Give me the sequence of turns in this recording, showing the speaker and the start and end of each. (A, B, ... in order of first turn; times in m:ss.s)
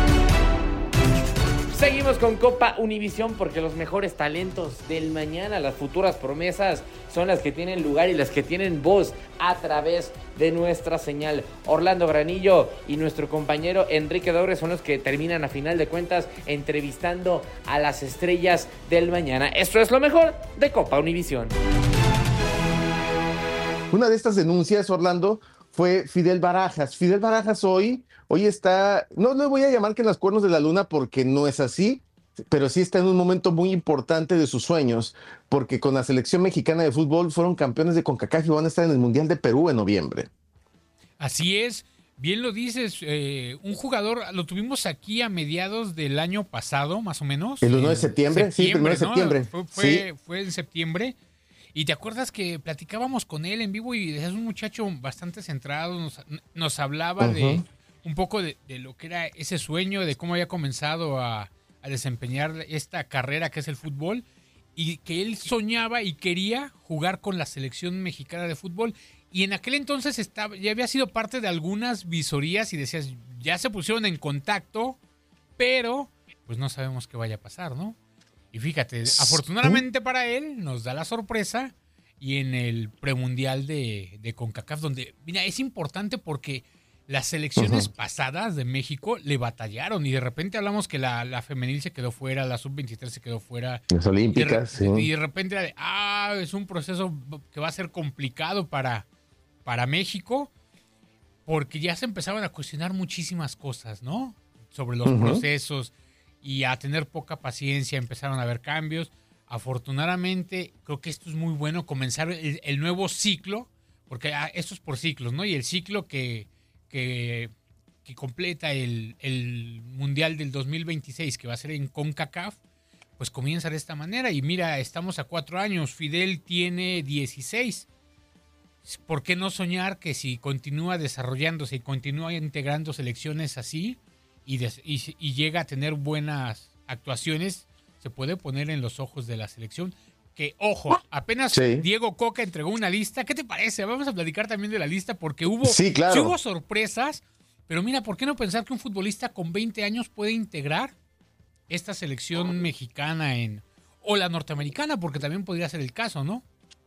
0:01.7-0:21.5 A
0:23.9-0:40.3 B
0:41.2-0:51.2 C
0:47.6-0:50.0 B
0:51.7-1:04.2 C
0:57.2-0:57.6 B
1:04.8-1:15.0 C
1:15.6-1:18.0 C
1:18.5-1:33.8 C
1:19.1-1:19.8 B
1:27.6-1:27.8 B
1:33.9-1:35.1 B
1:34.3-1:39.0 C
1:39.6-1:40.5 C
1:41.5-1:57.5 C
1:45.0-1:45.4 B
1:58.0-2:02.6 C
2:03.2-2:07.8 C
2:08.8-2:30.9 C
2:21.5-2:21.8 B
2:25.6-2:26.4 B
2:31.7-2:36.4 C